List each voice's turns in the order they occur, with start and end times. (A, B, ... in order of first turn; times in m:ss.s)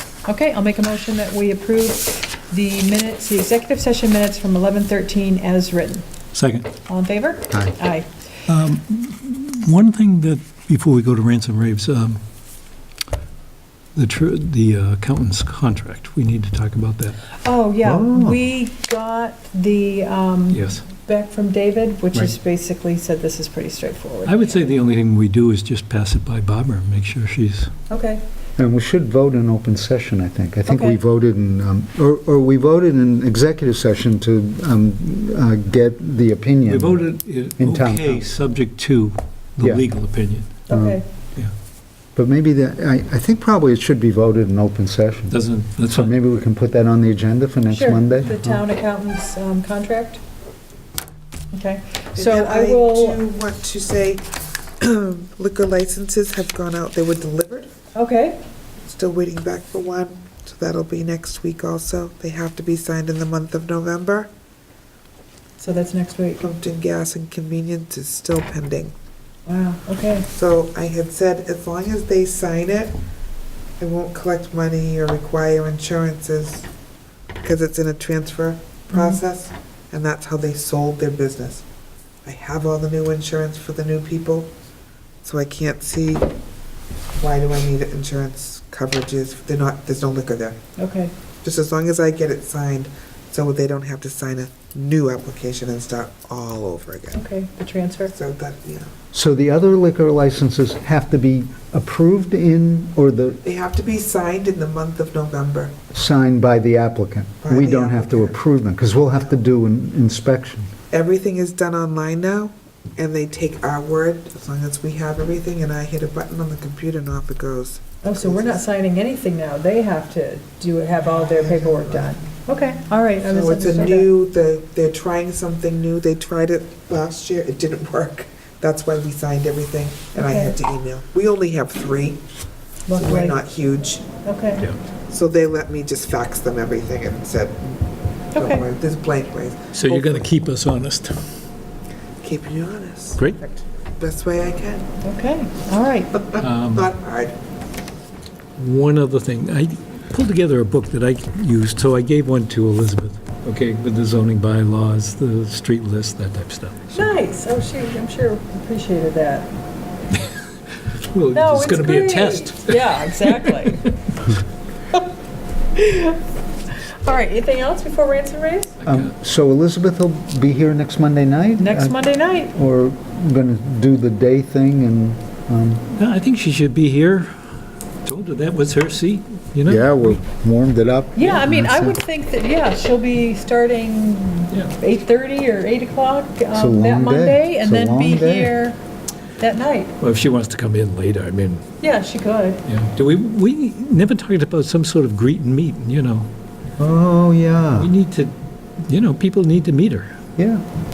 0:00.2-0:06.0 A
0:06.3-0:06.7 B
0:06.9-0:08.1 A
0:08.5-0:12.2 B
0:14.0-0:17.2 B
0:17.4-0:24.7 A
0:17.8-0:18.4 C
0:20.5-0:20.8 B
0:24.3-0:27.7 B
0:27.9-0:28.2 A
0:28.6-0:37.1 C
0:30.7-0:31.0 A
0:36.7-0:40.6 B
0:37.6-0:38.2 C
0:40.7-0:41.0 A
0:40.7-0:41.0 C
0:42.2-0:45.4 C
0:45.3-0:46.1 B
0:45.9-0:48.6 C
0:47.7-0:50.2 A
0:51.5-0:53.2 A
0:52.2-0:54.2 D
0:54.8-0:57.7 D
0:57.9-0:58.4 A
0:58.8-1:04.3 D
1:05.6-1:06.4 A
1:06.4-1:08.9 D
1:09.5-1:10.3 A
1:10.3-1:13.0 D
1:13.8-1:16.7 D
1:17.4-1:21.6 D
1:18.9-1:19.2 A
1:22.2-1:24.5 D
1:25.2-1:26.3 D
1:27.2-1:30.6 D
1:30.8-1:31.1 A
1:31.4-1:37.2 D
1:37.1-1:38.2 A
1:38.1-1:38.9 D
1:39.1-1:43.4 C
1:43.4-1:45.8 D
1:45.9-1:50.7 C
1:47.4-1:48.4 D
1:50.9-1:58.6 D
1:58.0-2:04.1 A
2:01.0-2:02.2 D
2:03.2-2:12.2 D
2:10.2-2:10.5 A
2:12.9-2:13.4 A
2:12.9-2:14.1 D
2:14.2-2:14.7 A
2:15.1-2:17.8 D
2:18.3-2:20.3 D
2:18.4-2:18.6 A
2:19.7-2:21.2 B
2:22.2-2:24.9 D
2:25.0-2:26.2 A
2:26.1-2:27.4 D
2:26.4-2:26.9 B
2:28.6-2:37.1 B
2:36.9-2:39.5 A
2:40.9-2:43.9 B
2:41.3-2:43.9 A
2:45.8-2:48.7 A
2:48.8-2:49.1 B
2:48.9-2:55.8 C
2:51.6-2:52.5 A
2:55.9-2:57.3 B
2:58.0-3:00.0 B
2:59.7-3:02.0 C
3:01.2-3:08.8 A
3:06.5-3:08.5 C
3:09.4-3:09.9 A
3:10.0-3:11.6 B
3:11.8-3:12.6 A
3:12.7-3:16.3 B
3:16.8-3:17.9 C
3:17.8-3:20.1 B
3:20.4-3:20.6 C